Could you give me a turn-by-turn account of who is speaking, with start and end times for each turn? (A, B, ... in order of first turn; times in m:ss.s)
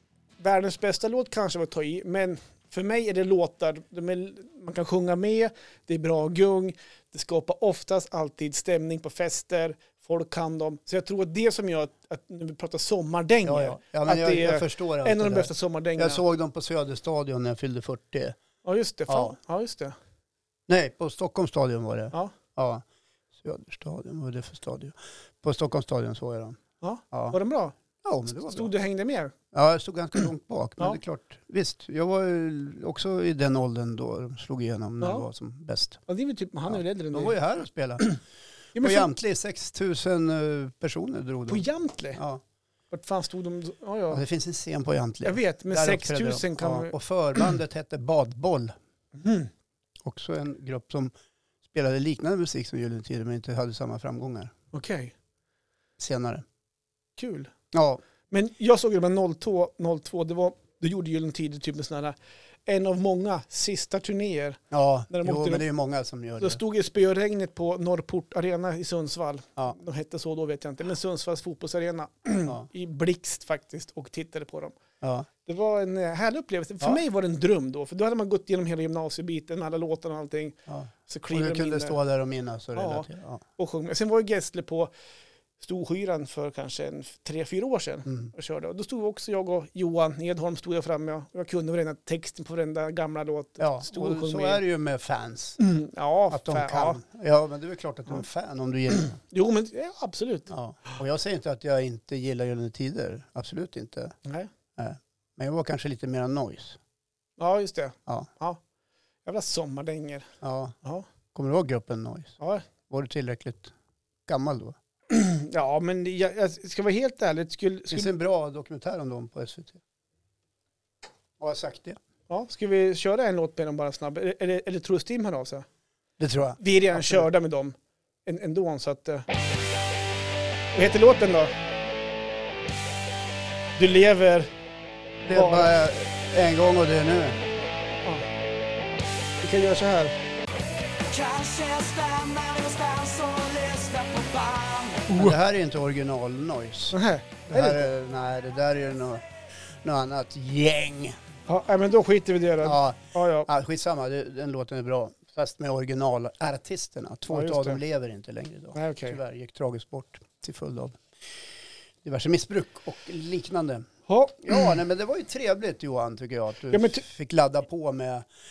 0:00.4-0:16.2 A
0:13.4-0:18.4 B
0:18.6-0:20.0 A
0:19.1-0:19.4 B
0:20.7-0:22.8 B
0:23.4-0:27.4 B
0:26.8-0:27.8 A
0:28.0-0:28.7 B
0:28.3-0:29.3 A
0:29.5-0:36.0 B
0:35.0-0:35.3 A
0:36.1-0:37.3 A
0:36.7-0:38.2 B
0:38.8-0:39.1 A
0:38.8-0:42.4 B
0:41.5-0:42.2 A
0:42.9-0:44.2 A
0:44.1-0:48.8 B
0:45.2-0:47.0 A
0:49.2-0:49.5 A
0:50.0-0:51.1 B
0:51.7-0:54.5 B
0:54.7-0:55.2 A
0:56.0-0:56.4 B
0:57.2-0:57.5 A
0:57.7-0:58.0 B
0:58.3-1:05.6 A
1:04.7-1:06.6 B
1:06.4-1:14.8 A
1:15.0-1:15.3 B
1:15.4-1:22.0 A
1:20.7-1:23.4 B
1:22.8-1:24.9 A
1:25.6-1:34.6 A
1:28.1-1:28.3 B
1:33.6-1:35.6 B
1:35.6-1:37.0 A
1:36.3-1:39.2 B
1:39.2-1:40.5 A
1:40.5-1:44.2 B
1:44.2-1:44.5 A
1:44.8-1:46.8 B
1:47.4-1:48.6 A
1:49.2-1:50.3 A
1:50.4-1:50.8 B
1:51.3-1:53.7 B
1:52.4-1:52.7 A
1:54.3-1:54.8 B
1:55.1-1:58.1 A
1:57.9-1:59.8 B
2:01.4-2:02.0 B
2:02.3-2:05.7 A
2:06.2-2:07.3 B
2:06.6-2:09.3 A
2:10.7-2:11.5 A
2:13.8-2:14.5 A
2:15.3-2:17.4 B
2:15.3-2:15.8 A
2:19.4-2:20.2 A
2:21.9-2:24.6 C
2:25.1-2:29.3 B
2:25.1-2:25.4 A
2:26.9-2:27.9 A
2:29.8-2:31.2 B
2:31.5-2:33.5 A
2:32.6-2:41.0 B
2:37.3-2:37.8 A
2:38.8-2:39.2 A
2:42.0-2:48.3 B
2:44.1-2:44.8 A
2:46.7-2:47.0 A